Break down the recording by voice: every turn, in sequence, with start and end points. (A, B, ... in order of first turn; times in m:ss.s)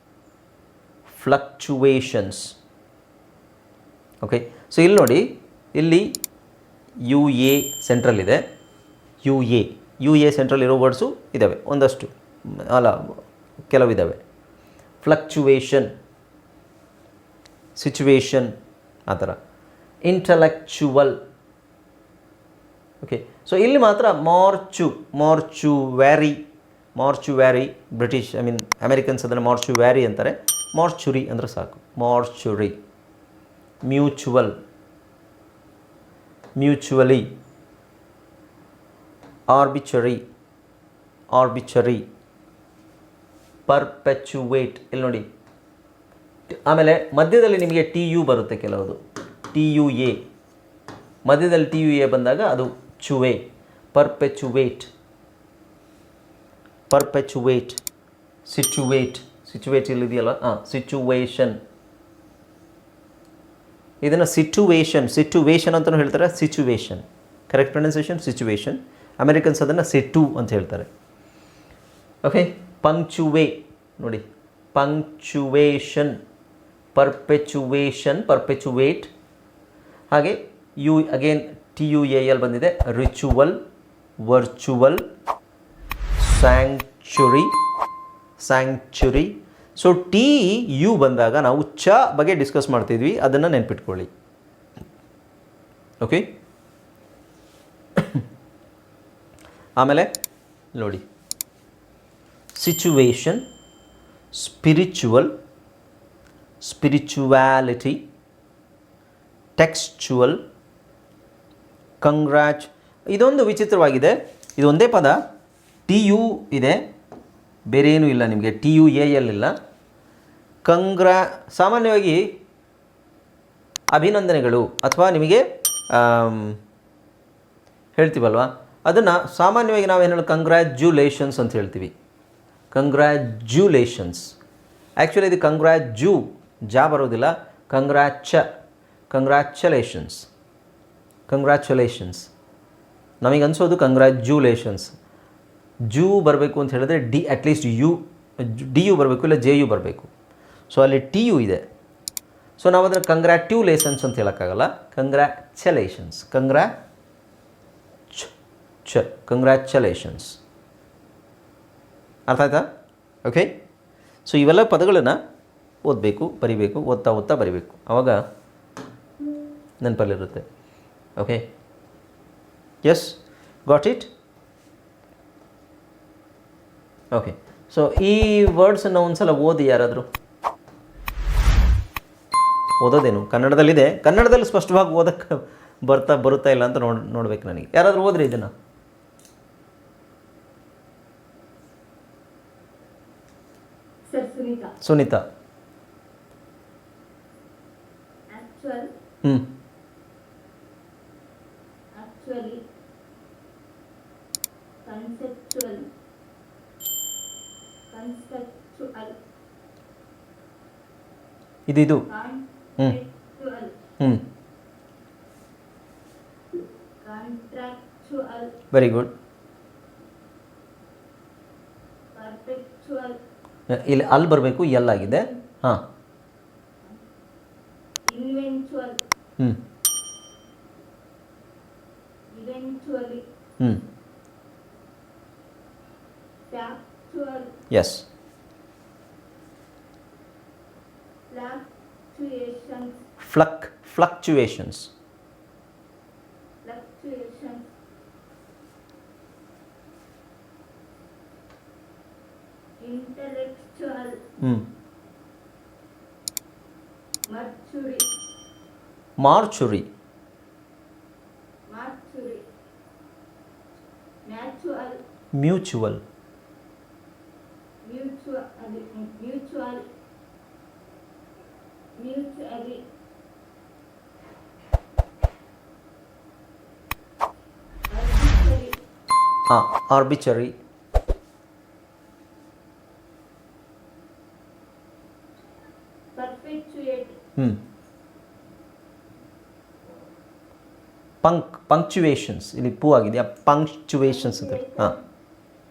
0:01.1-0:02.5 A
0:04.2-0:06.2 A
0:07.0-0:08.4 A
0:09.2-0:14.2 A
0:15.0-0:15.9 A
0:17.8-0:18.5 A
0:19.1-0:19.4 A
0:20.0-0:21.2 A
0:23.0-0:26.4 A
0:27.0-0:32.8 A
0:33.8-0:34.5 A
0:36.6-0:37.3 A
0:39.5-0:40.2 A
0:41.3-0:42.0 A
0:43.7-0:45.2 A
0:46.5-0:49.0 A
0:49.5-0:50.2 A
0:51.2-0:53.4 A
0:53.9-0:54.9 A
0:56.9-0:57.8 A
0:58.4-1:01.6 A
1:04.0-1:10.9 A
1:12.2-1:16.2 A
1:16.9-1:19.1 A
1:20.1-1:23.6 A
1:24.2-1:25.0 A
1:26.2-1:27.5 A
1:28.4-1:34.1 A
1:36.0-1:36.2 A
1:38.0-1:38.2 A
1:39.8-1:40.1 A
1:40.7-1:41.0 A
1:42.5-1:43.4 A
1:44.3-1:45.3 A
1:46.6-1:48.0 A
1:49.6-1:50.4 A
1:52.0-1:55.2 A
1:55.9-1:56.8 A
1:57.7-1:59.5 A
2:00.6-2:02.3 A
2:03.9-2:06.6 A
2:08.0-2:11.9 A
2:12.7-2:14.3 A
2:15.0-2:18.4 A
2:19.1-2:20.3 A
2:21.3-2:22.3 A
2:23.2-2:24.9 A
2:25.8-2:30.1 A
2:30.7-2:31.6 A
2:32.6-2:36.7 A
2:38.8-2:40.4 A
2:42.3-2:42.7 A
2:43.2-2:43.5 A
2:44.2-2:45.2 A
2:45.8-2:48.2 A
2:49.8-2:50.4 A
2:51.2-2:51.4 A
2:52.8-2:54.1 A
2:57.1-3:00.1 A
3:02.8-3:08.5 A
3:14.1-3:14.7 B
3:14.8-3:15.2 A
3:18.3-3:18.9 B
3:19.2-3:19.5 A
3:21.9-3:22.6 B
3:24.8-3:25.9 B
3:27.9-3:29.1 B
3:31.7-3:32.0 A
3:32.1-3:33.8 B
3:37.0-3:38.5 B
3:38.7-3:39.1 A
3:42.1-3:43.2 B
3:43.7-3:45.8 A
3:45.0-3:45.3 B
3:48.0-3:49.0 B
3:52.3-3:53.2 B
3:56.5-3:57.5 B
3:57.7-3:58.0 A
4:01.3-4:03.0 B
4:03.2-4:04.9 A
4:06.6-4:07.7 B
4:12.8-4:14.2 B
4:14.4-4:14.7 A
4:17.3-4:18.0 B
4:19.2-4:19.9 A
4:21.7-4:22.4 B
4:24.2-4:25.0 B
4:25.3-4:26.0 A
4:27.8-4:29.8 B
4:31.9-4:32.8 B
4:37.9-4:38.8 B
4:39.5-4:40.5 A
4:46.1-4:47.1 B
4:51.2-4:54.9 A
4:54.0-4:55.0 B